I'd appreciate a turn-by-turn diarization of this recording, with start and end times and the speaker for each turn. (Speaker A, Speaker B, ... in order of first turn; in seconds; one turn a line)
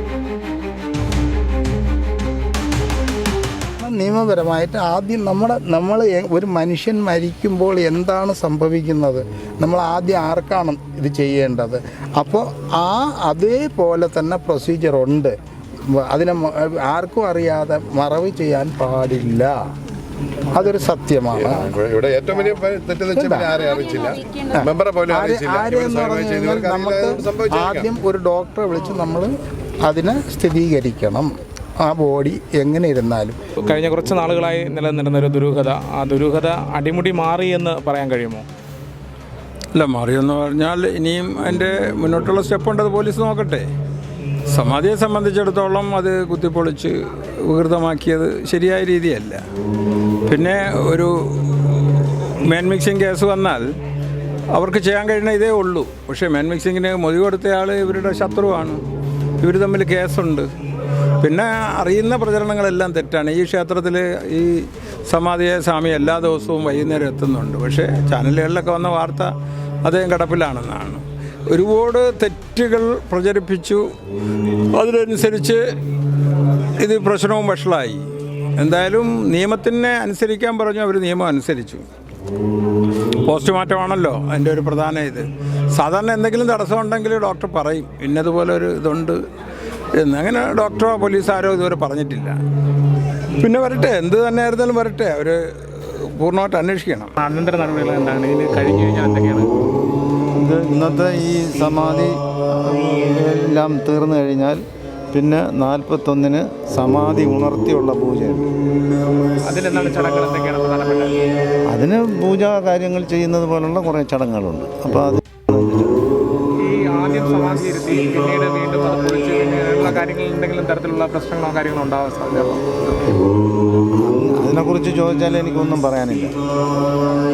Speaker A: 3.8-15.3
Speaker A: 16.0-19.5
Speaker A: 20.5-21.7
Speaker B: 21.4-27.8
Speaker A: 23.1-23.6
Speaker A: 24.4-29.3
Speaker A: 29.8-31.3
Speaker A: 31.8-33.4
Speaker C: 33.6-38.5
Speaker D: 39.8-43.7
Speaker D: 44.5-49.4
Speaker D: 50.3-51.9
Speaker D: 52.5-53.6
Speaker D: 54.5-58.8
Speaker D: 59.4-60.5
Speaker D: 61.2-69.3
Speaker D: 69.8-73.8
Speaker D: 74.7-75.6
Speaker D: 76.8-78.0
Speaker D: 78.6-81.8
Speaker D: 83.2-89.2
Speaker D: 90.0-92.4
Speaker D: 93.4-97.1
Speaker C: 97.2-99.5
Speaker E: 100.3-108.5
Speaker C: 109.4-111.2
Speaker E: 111.7-116.0
Speaker C: 116.6-122.7
Speaker E: 124.0-126.4